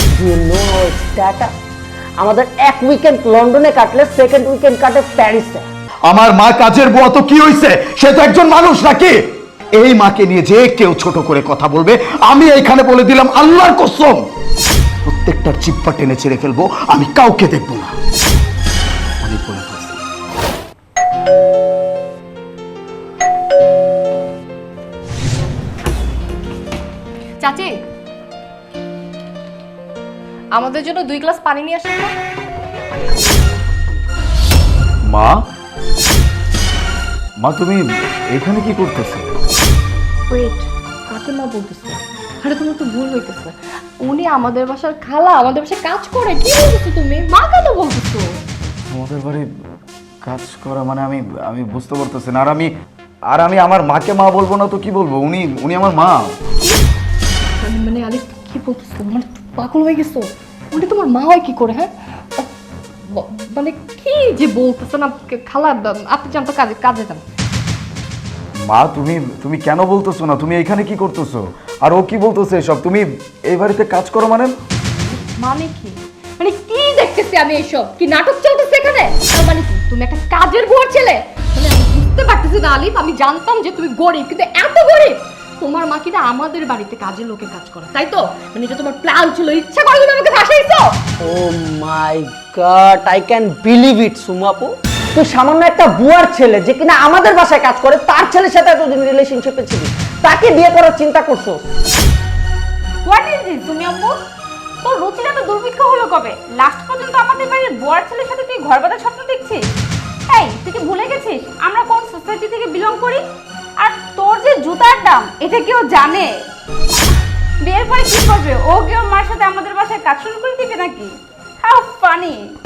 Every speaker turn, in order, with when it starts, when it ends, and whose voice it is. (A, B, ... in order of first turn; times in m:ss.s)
0:00.2-0:01.5 A
0:02.2-0:05.6 A
0:06.1-0:09.2 B
0:09.8-0:14.2 B
0:15.0-0:17.9 B
0:19.2-0:20.0 B
0:27.4-0:27.8 C
0:30.5-0:32.1 C
0:35.1-0:35.4 B
0:37.4-0:39.5 B
0:40.3-0:48.3 C
0:48.9-0:49.5 B
0:50.2-0:52.7 B
0:53.3-0:56.3 B
0:57.6-1:02.5 C
1:03.1-1:07.2 C
1:08.7-1:14.6 B
1:15.4-1:30.9 C
1:31.2-1:41.7 A
1:43.0-1:44.2 D
1:44.8-1:49.6 D
1:50.3-1:53.2 D
1:53.8-1:56.3 D
1:57.6-2:02.4 D